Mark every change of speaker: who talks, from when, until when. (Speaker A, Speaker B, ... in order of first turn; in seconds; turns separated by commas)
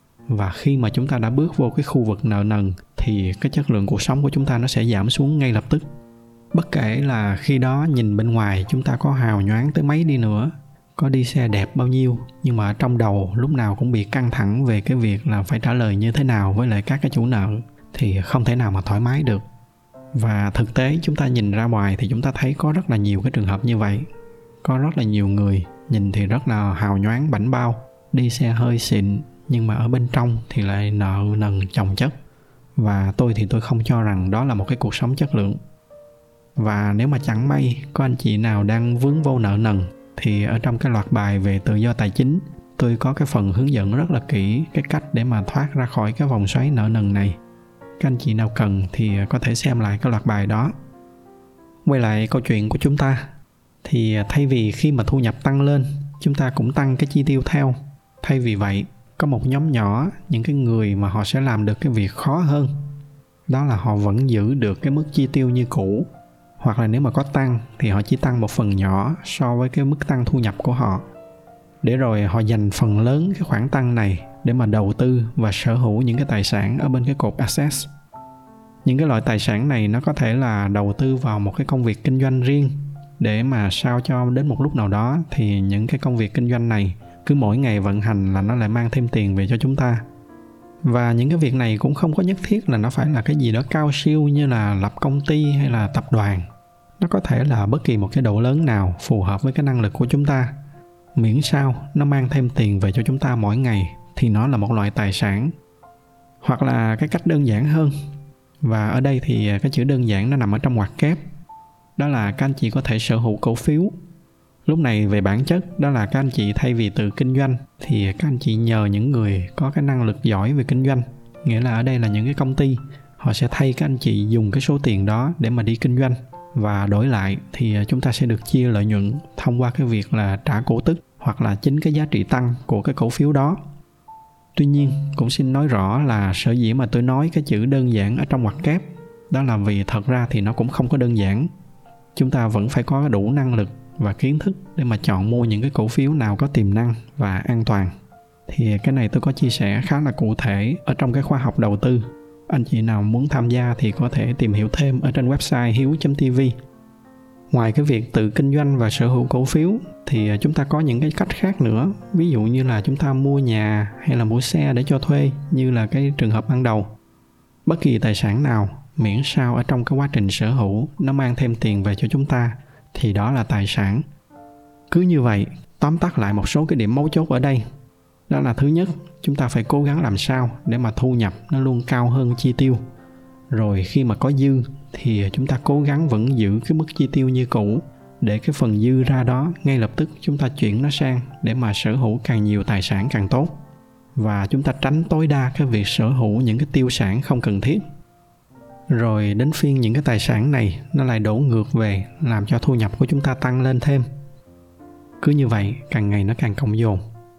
Speaker A: 0.3-5.9, Speaker A: 6.5-19.4, Speaker A: 20.1-24.1, Speaker A: 24.6-32.1, Speaker A: 32.8-35.6, Speaker A: 36.6-47.4, Speaker A: 48.0-50.7, Speaker A: 51.8-53.3, Speaker A: 53.8-62.7, Speaker A: 63.5-66.1, Speaker A: 66.6-71.0, Speaker A: 71.8-77.9, Speaker A: 78.8-90.0, Speaker A: 90.8-96.4, Speaker A: 97.0-100.6, Speaker A: 101.2-105.5, Speaker A: 106.4-107.9, Speaker A: 108.6-111.2, Speaker A: 112.0-113.9, Speaker A: 114.7-133.6, Speaker A: 134.6-141.5, Speaker A: 142.1-147.9, Speaker A: 148.5-156.5, Speaker A: 157.5-166.9, Speaker A: 167.7-174.0, Speaker A: 174.9-177.6, Speaker A: 178.3-182.8, Speaker A: 183.5-193.6, Speaker A: 194.2-197.8, Speaker A: 198.9-204.1, Speaker A: 205.2-207.0